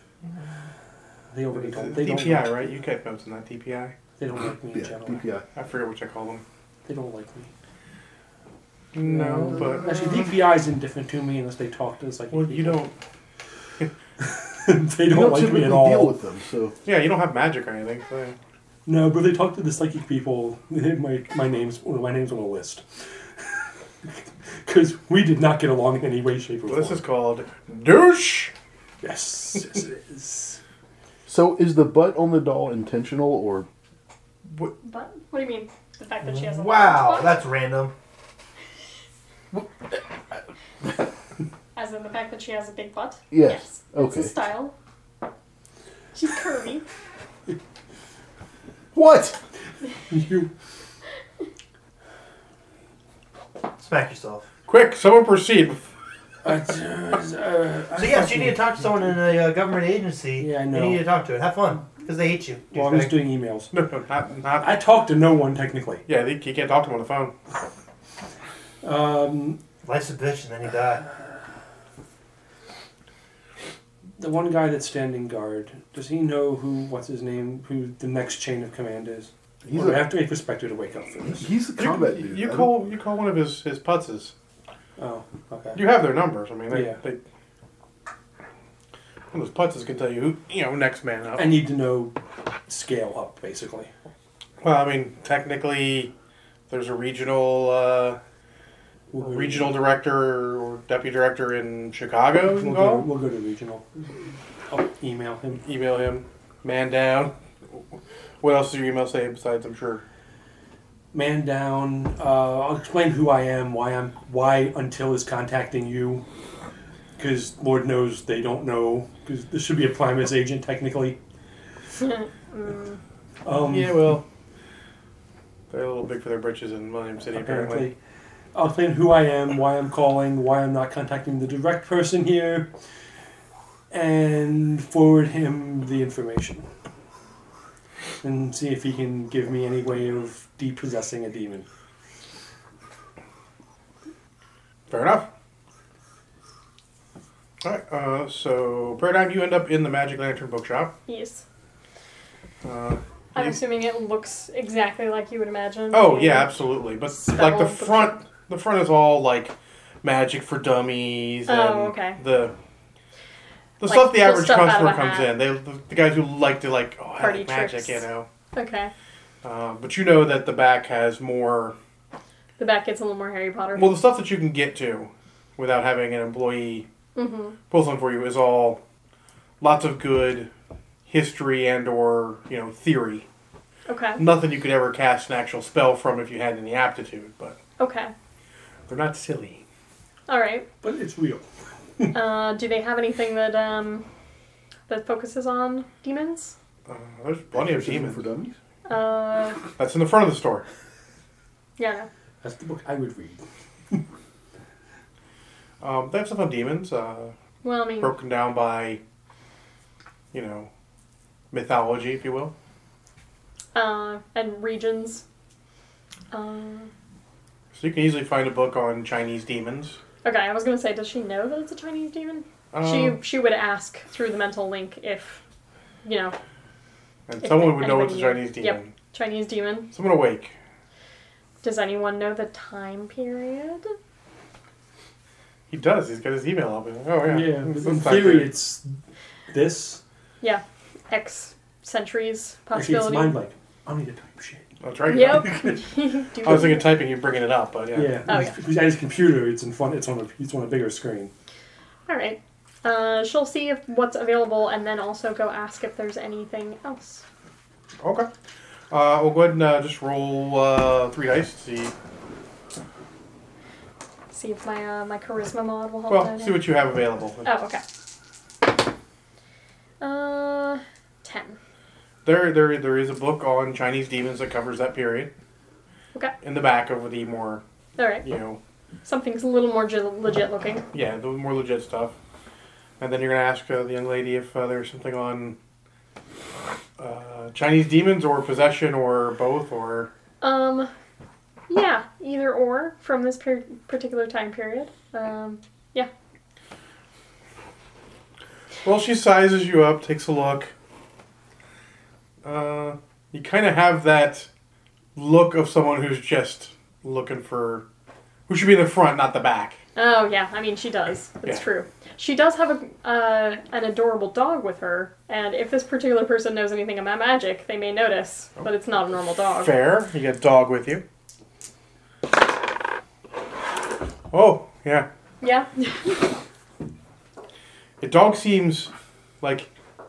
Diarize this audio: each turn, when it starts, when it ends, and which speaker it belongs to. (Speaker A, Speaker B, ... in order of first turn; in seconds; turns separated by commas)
Speaker A: 1.3-2.7, Speaker B: 1.5-4.0, Speaker A: 4.2-5.2, Speaker C: 4.7-5.4, Speaker B: 5.5-6.4, Speaker A: 6.8-7.5, Speaker B: 8.9-10.3, Speaker A: 9.0-12.8, Speaker B: 12.3-12.9, Speaker A: 14.2-16.1, Speaker C: 15.1-16.7, Speaker B: 16.8-18.4, Speaker A: 18.9-27.0, Speaker B: 26.7-28.5, Speaker A: 29.0-30.6, Speaker C: 31.3-33.7, Speaker D: 34.8-37.4, Speaker E: 36.2-37.9, Speaker D: 41.7-44.7, Speaker C: 43.3-44.3, Speaker D: 46.1-46.8, Speaker C: 48.9-49.4, Speaker A: 50.1-50.5, Speaker E: 53.8-54.5, Speaker B: 54.7-55.9, Speaker A: 56.4-58.6, Speaker E: 58.0-63.1, Speaker A: 60.4-61.0, Speaker A: 62.7-63.7, Speaker B: 63.7-64.7, Speaker A: 64.6-66.0, Speaker B: 66.1-67.3, Speaker A: 68.8-69.6, Speaker E: 69.8-71.0, Speaker A: 74.2-81.5, Speaker C: 79.6-80.0, Speaker C: 81.3-82.7, Speaker B: 81.8-84.3, Speaker A: 85.0-85.8, Speaker B: 85.7-87.2, Speaker A: 86.7-87.0, Speaker B: 89.3-91.5, Speaker A: 91.3-92.2, Speaker A: 92.7-93.9, Speaker B: 94.6-96.1, Speaker B: 96.7-98.2, Speaker A: 99.1-99.8, Speaker B: 99.2-103.1, Speaker A: 102.4-105.6, Speaker B: 105.6-107.3, Speaker B: 108.4-110.0, Speaker A: 111.1-116.2, Speaker A: 117.2-121.2, Speaker D: 122.0-123.0, Speaker A: 123.4-124.2, Speaker B: 123.6-124.2, Speaker B: 125.7-127.9, Speaker A: 127.3-128.0, Speaker A: 128.5-132.7, Speaker A: 133.9-136.7, Speaker A: 138.2-141.7, Speaker B: 144.9-145.3, Speaker B: 147.6-150.9, Speaker D: 151.1-151.4, Speaker B: 152.6-153.6, Speaker D: 153.3-156.5, Speaker B: 155.9-162.5, Speaker D: 157.1-158.2, Speaker D: 161.5-162.2, Speaker B: 163.8-168.2, Speaker D: 163.8-165.3, Speaker D: 167.2-168.9, Speaker B: 169.4-171.8, Speaker D: 172.6-173.9, Speaker B: 173.7-176.8, Speaker D: 177.1-177.6, Speaker B: 177.7-178.8, Speaker B: 179.6-180.5, Speaker B: 181.1-183.2, Speaker D: 183.9-184.2, Speaker B: 184.2-187.6, Speaker D: 187.8-188.1, Speaker B: 188.9-189.6, Speaker D: 190.3-190.7, Speaker A: 190.8-191.4, Speaker D: 192.1-194.1, Speaker D: 194.9-196.5, Speaker B: 196.9-198.3, Speaker C: 197.5-198.5, Speaker D: 198.8-199.6, Speaker B: 199.8-200.6, Speaker D: 201.8-202.1, Speaker A: 202.4-203.4, Speaker B: 205.8-207.3, Speaker D: 207.6-208.2, Speaker B: 208.0-209.0, Speaker B: 210.3-210.7, Speaker B: 211.5-212.5, Speaker D: 213.7-215.2, Speaker D: 216.3-216.9, Speaker B: 217.7-220.0, Speaker D: 220.2-225.4, Speaker B: 222.7-223.2, Speaker D: 226.0-226.3, Speaker B: 227.3-228.9, Speaker D: 227.4-229.9, Speaker B: 229.9-230.5, Speaker D: 231.6-233.9, Speaker B: 235.7-238.5, Speaker A: 237.3-238.8, Speaker A: 239.5-240.0, Speaker D: 240.4-243.4, Speaker A: 242.7-245.8, Speaker B: 244.8-245.7, Speaker D: 245.1-247.0, Speaker B: 246.4-248.2, Speaker A: 247.9-251.3, Speaker D: 248.3-248.6, Speaker D: 252.1-257.2, Speaker B: 258.0-258.3, Speaker B: 258.9-261.9, Speaker D: 264.3-266.6, Speaker B: 266.1-267.5, Speaker D: 267.4-267.8, Speaker D: 270.0-271.6, Speaker B: 272.2-275.3, Speaker B: 276.4-277.6, Speaker D: 278.0-278.2, Speaker B: 278.2-278.6, Speaker D: 279.0-280.9, Speaker B: 280.9-282.1, Speaker B: 283.0-285.6, Speaker B: 287.0-290.1, Speaker D: 290.4-290.9, Speaker D: 291.7-296.1, Speaker B: 298.8-300.7, Speaker B: 302.4-304.5, Speaker B: 305.1-307.9, Speaker B: 308.5-309.8, Speaker D: 309.9-319.7, Speaker B: 319.6-321.0, Speaker B: 324.3-325.1, Speaker D: 325.4-326.2, Speaker B: 328.0-329.7